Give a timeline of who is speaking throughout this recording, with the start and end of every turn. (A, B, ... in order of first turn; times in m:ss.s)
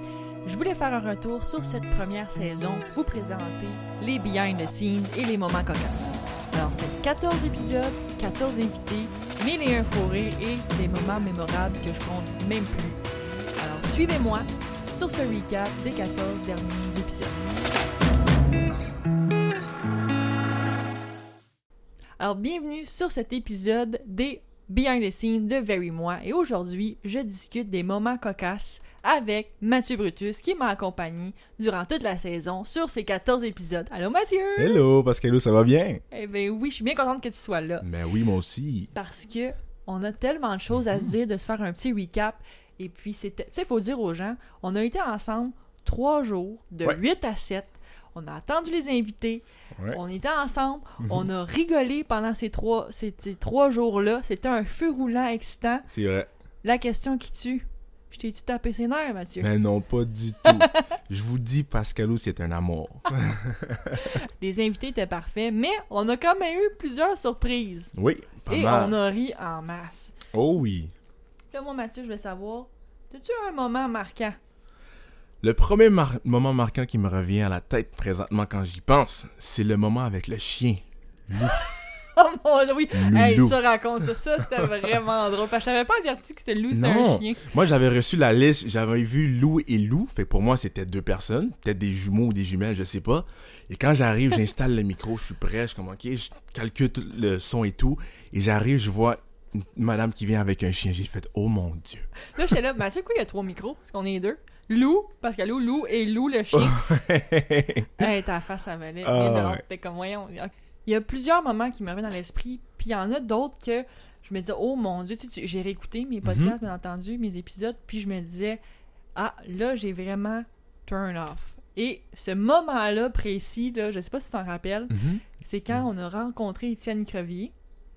0:00.4-0:13.0 A
0:13.6-0:17.4 A
0:22.2-0:34.8 A
0:34.6-0:36.0 B
0:36.1-0:37.8 A
0:37.8-0:38.9 B
0:38.9-0:55.9 A
0:51.0-0:51.3 B
0:55.9-0:56.3 B
0:56.6-0:59.5 A
0:59.4-1:04.0 B
1:00.5-1:00.8 A
1:03.9-1:07.9 A
1:08.0-1:09.0 B
1:08.5-1:10.1 A
1:10.3-1:10.9 B
1:11.5-1:14.4 A
1:15.4-1:21.7 B
1:21.4-1:27.5 A
1:22.9-1:23.6 B
1:26.7-1:42.2 B
1:42.3-1:46.8 A
1:46.5-1:48.1 B
1:48.0-1:58.6 A
1:49.0-1:49.6 B
1:56.2-1:56.6 B
1:59.2-2:07.5 A
2:04.9-2:05.8 B